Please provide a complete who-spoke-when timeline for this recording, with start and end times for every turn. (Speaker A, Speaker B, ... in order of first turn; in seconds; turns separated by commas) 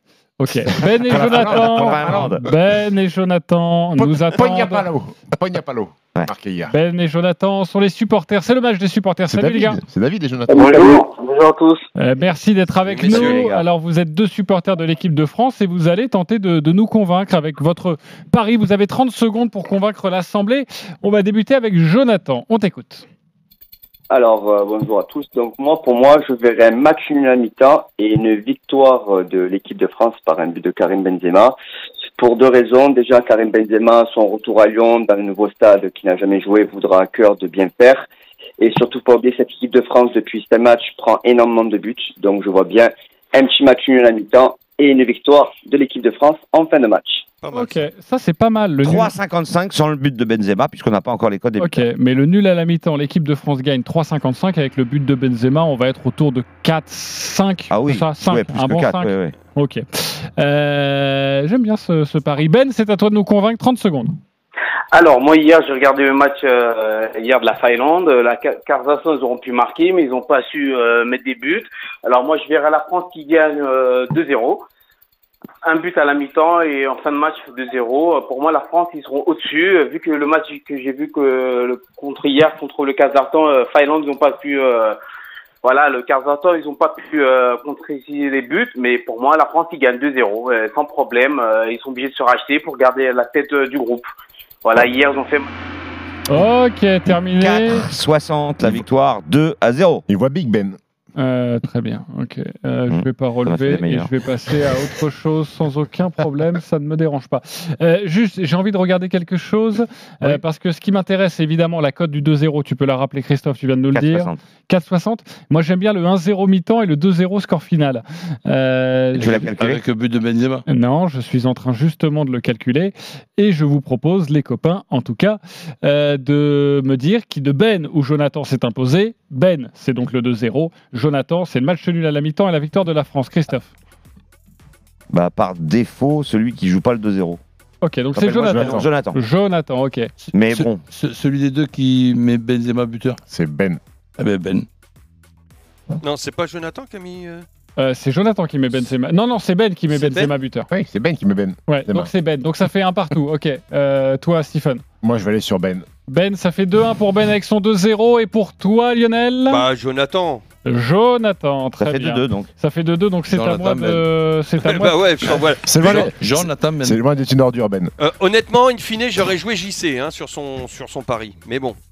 Speaker A: 0.4-4.9, Speaker B: 0.9-2.4, Speaker C: 1.1-2.4, Speaker B: 4.0-6.7, Speaker A: 6.7-9.8, Speaker B: 9.3-11.0, Speaker D: 10.5-11.8, Speaker A: 12.0-23.1, Speaker E: 12.9-13.5, Speaker C: 13.0-13.6, Speaker F: 24.1-31.5, Speaker F: 32.2-38.1, Speaker F: 38.6-47.2, Speaker E: 47.4-47.8, Speaker A: 47.5-49.1, Speaker C: 48.8-51.8, Speaker A: 51.6-64.2, Speaker C: 57.7-59.3, Speaker D: 64.9-74.6, Speaker D: 75.6-85.0, Speaker D: 85.6-94.1, Speaker D: 94.6-95.5, Speaker A: 96.3-97.8, Speaker C: 97.4-100.0, Speaker B: 100.1-100.8, Speaker A: 101.2-119.5, Speaker C: 102.9-104.1, Speaker C: 113.9-114.4, Speaker C: 119.2-119.8, Speaker G: 119.6-120.6, Speaker A: 120.7-133.7, Speaker C: 135.1-137.4, Speaker A: 137.8-140.1, Speaker C: 138.1-139.2, Speaker B: 138.4-138.9, Speaker G: 140.3-143.2, Speaker C: 140.3-140.8, Speaker B: 143.3-143.8, Speaker G: 144.2-144.7, Speaker E: 146.0-147.4, Speaker A: 147.8-150.7, Speaker E: 149.9-150.3, Speaker B: 150.7-152.1, Speaker A: 151.7-154.8, Speaker B: 155.0-155.8, Speaker A: 156.1-159.6, Speaker E: 159.5-160.4, Speaker A: 160.6-165.0, Speaker C: 161.8-162.5, Speaker G: 163.3-164.0, Speaker E: 164.6-166.1, Speaker B: 165.6-167.9, Speaker G: 165.8-167.0, Speaker E: 168.0-171.8